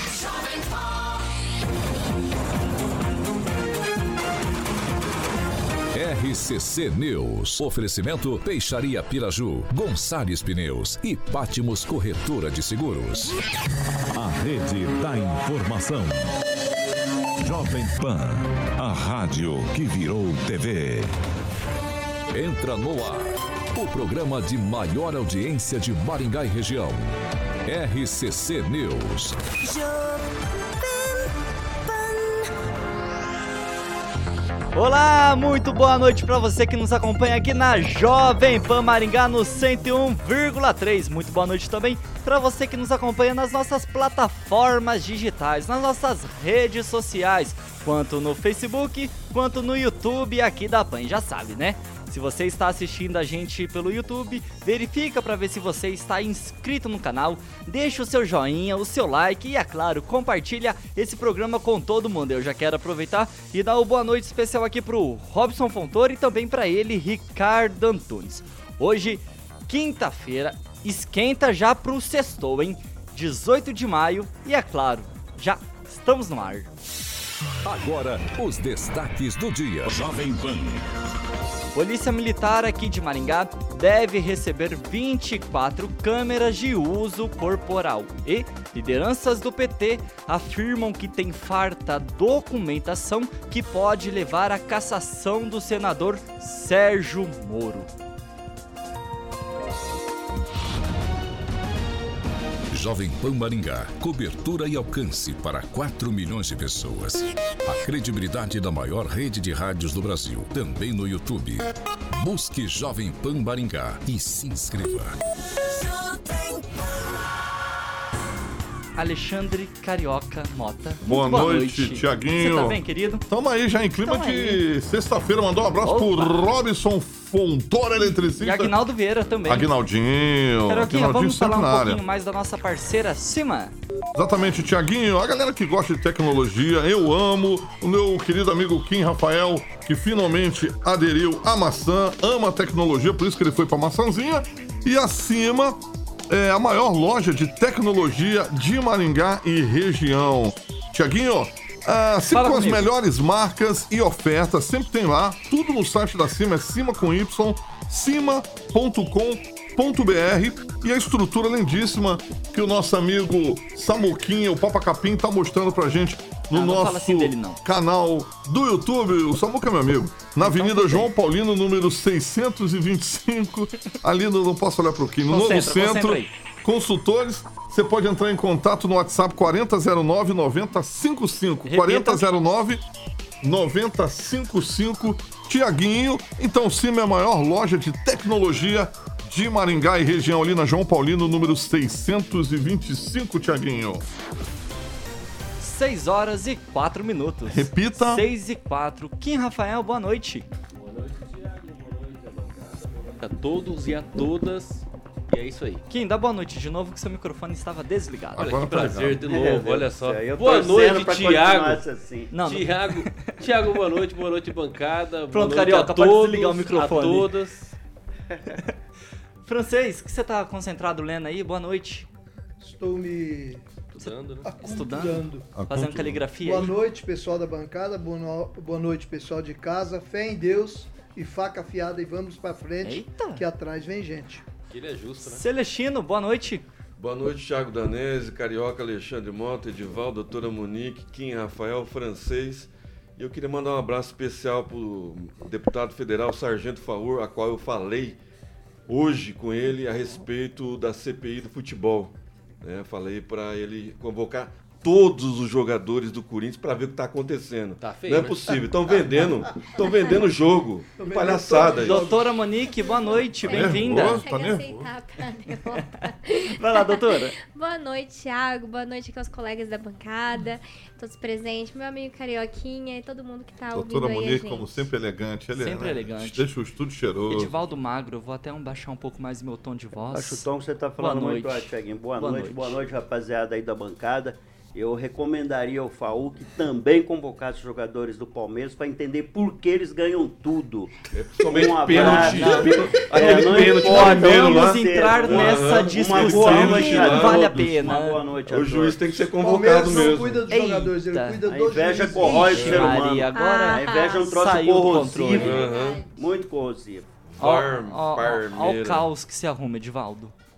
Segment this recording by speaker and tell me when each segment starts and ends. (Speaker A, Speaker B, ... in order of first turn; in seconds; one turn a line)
Speaker A: 5.9-13.4
Speaker A: 14.1-16.2
Speaker A: 17.4-21.0
Speaker A: 22.3-27.0
Speaker A: 27.6-29.4
Speaker B: 31.9-32.4
Speaker B: 34.7-76.7
Speaker A: 77.6-80.8
Speaker B: 81.7-97.9
Speaker A: 102.7-115.2
Speaker B: 118.9-123.2
Speaker C: 121.0-128.8
Speaker B: 124.0-124.6
Speaker B: 125.8-126.5
Speaker B: 128.4-129.7
Speaker C: 129.5-132.0
Speaker B: 130.7-133.7
Speaker C: 134.1-182.8
Speaker B: 152.3-152.9
Speaker B: 166.5-167.6
Speaker B: 170.4-171.1
Speaker B: 175.3-176.3
Speaker B: 181.7-182.2
Speaker C: 183.4-194.0
Speaker B: 195.6-200.4
Speaker C: 197.5-198.2
Speaker D: 202.2-205.8
Speaker B: 205.9-208.5
Speaker C: 208.3-209.2
Speaker D: 208.4-211.8
Speaker E: 209.2-212.3
Speaker B: 212.3-213.4
Speaker D: 212.3-217.7
Speaker B: 215.3-217.3
Speaker B: 219.4-222.1
Speaker F: 222.6-223.6
Speaker B: 224.0-226.7
Speaker D: 224.0-224.5
Speaker F: 224.4-225.6
Speaker C: 225.6-226.2
Speaker F: 226.4-234.4
Speaker B: 232.8-233.4
Speaker D: 234.7-235.4
Speaker B: 235.2-236.7
Speaker G: 237.0-248.2
Speaker G: 248.9-262.1
Speaker D: 257.8-258.6
Speaker F: 261.0-262.4
Speaker B: 261.5-264.2
Speaker H: 262.6-274.8
Speaker C: 263.5-264.6
Speaker B: 266.6-267.3
Speaker C: 273.7-277.5
Speaker B: 275.6-276.4
Speaker B: 277.3-280.4
Speaker E: 280.1-290.9
Speaker B: 281.0-282.8
Speaker G: 291.1-300.4
Speaker E: 291.4-299.0
Speaker B: 291.9-298.2
Speaker F: 299.4-302.6
Speaker B: 300.5-301.4
Speaker E: 301.4-307.1
Speaker B: 302.2-305.5
Speaker G: 302.6-302.9
Speaker H: 303.3-304.3
Speaker H: 305.1-306.3
Speaker G: 305.3-306.0
Speaker G: 307.2-309.1
Speaker B: 307.4-310.3